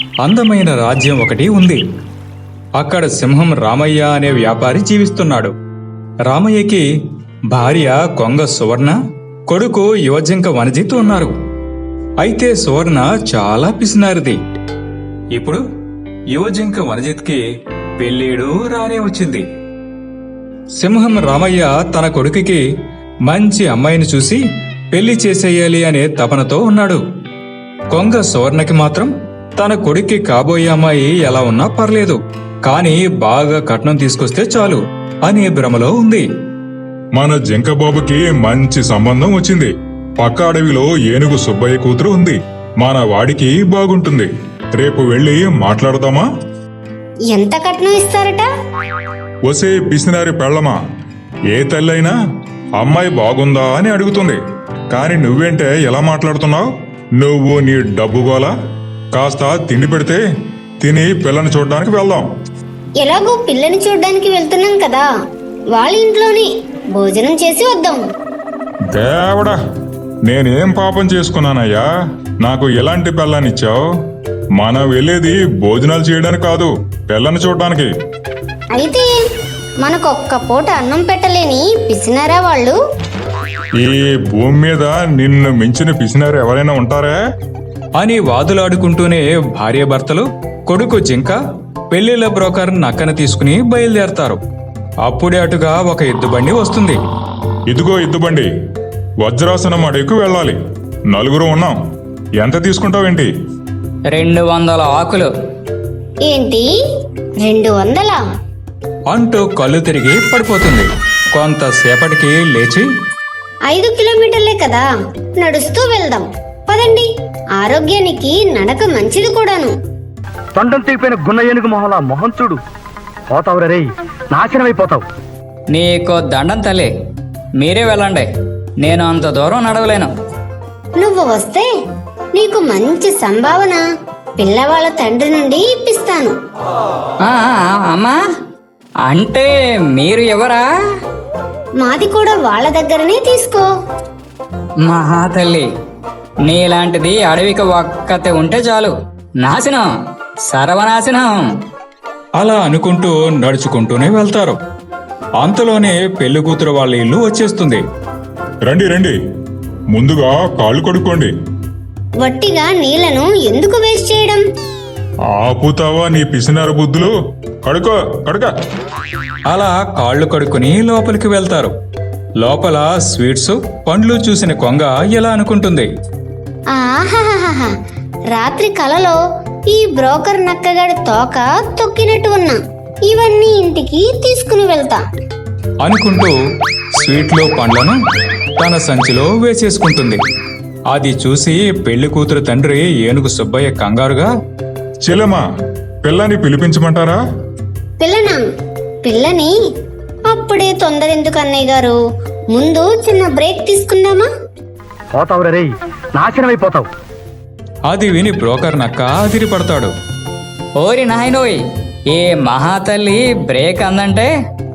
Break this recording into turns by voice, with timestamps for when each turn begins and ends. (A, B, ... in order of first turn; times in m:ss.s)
0:00.2-0:01.8 A
0:02.8-0:05.5 A
0:06.3-0:06.8 A
0:07.5-0:09.0 A
0:09.5-0:11.3 A
0:12.2-0:14.4 A
0:15.3-0:15.6 A
0:16.3-0:17.4 A
0:18.0-0:19.4 A
0:20.8-0:22.6 A
0:23.2-0:24.4 A
0:24.9-0:27.0 A
0:27.9-0:36.3 A
0:37.2-0:46.3 B
0:47.3-0:48.5 C
0:49.5-0:50.8 B
0:51.5-0:52.1 B
0:52.8-0:54.4 B
0:54.9-0:56.7 B
0:57.2-0:58.5 B
0:59.1-1:00.2 B
1:00.8-1:02.2 B
1:03.0-1:05.1 C
1:05.7-1:08.0 C
1:08.9-1:09.6 B
1:10.3-1:11.8 B
1:12.4-1:13.8 B
1:14.6-1:17.9 B
1:18.7-1:19.1 C
1:19.8-1:22.8 C
1:23.8-1:27.2 B
1:28.0-1:31.4 A
1:31.9-1:34.4 A
1:35.0-1:37.0 A
1:37.7-1:38.5 B
1:39.2-1:40.6 B
1:41.1-1:41.8 B
1:42.4-1:43.3 B
1:44.1-1:45.3 D
1:46.2-1:46.7 C
1:47.4-1:48.2 C
1:49.1-1:52.9 A
1:53.7-1:54.9 C
1:55.4-1:57.1 C
1:57.6-1:59.7 C
2:00.6-2:02.6 E
2:03.3-2:05.1 E
2:05.7-2:06.9 D
2:07.6-2:08.3 D
2:08.8-2:10.1 D
2:11.0-2:11.7 C
2:12.3-2:13.8 C
2:14.4-2:16.3 C
2:17.2-2:18.2 D
2:19.0-2:20.7 D
2:21.8-2:23.6 C
2:24.8-2:25.7 D
2:26.4-2:29.9 D
2:30.5-2:31.4 D
2:32.4-2:34.6 A
2:35.4-2:37.8 A
2:38.7-2:39.2 B
2:39.9-2:41.3 B
2:42.2-2:44.4 C
2:45.4-2:47.1 B
2:47.6-2:48.5 B
2:49.5-2:51.7 A
2:52.4-2:55.9 A
2:56.7-2:57.7 C
2:58.3-2:59.2 C
2:59.7-3:05.0 C
3:05.8-3:06.4 A
3:07.0-3:08.0 A
3:08.6-3:10.2 A
3:10.9-3:14.3 A
3:15.0-3:15.4 B
3:16.0-3:17.2 B
3:18.0-3:18.4 C
3:19.0-3:19.5 C
3:20.3-3:22.0 C
3:22.5-3:24.3 C
3:25.1-3:26.9 E
3:27.9-3:29.9 A
3:30.8-3:31.6 D
3:32.1-3:34.3 D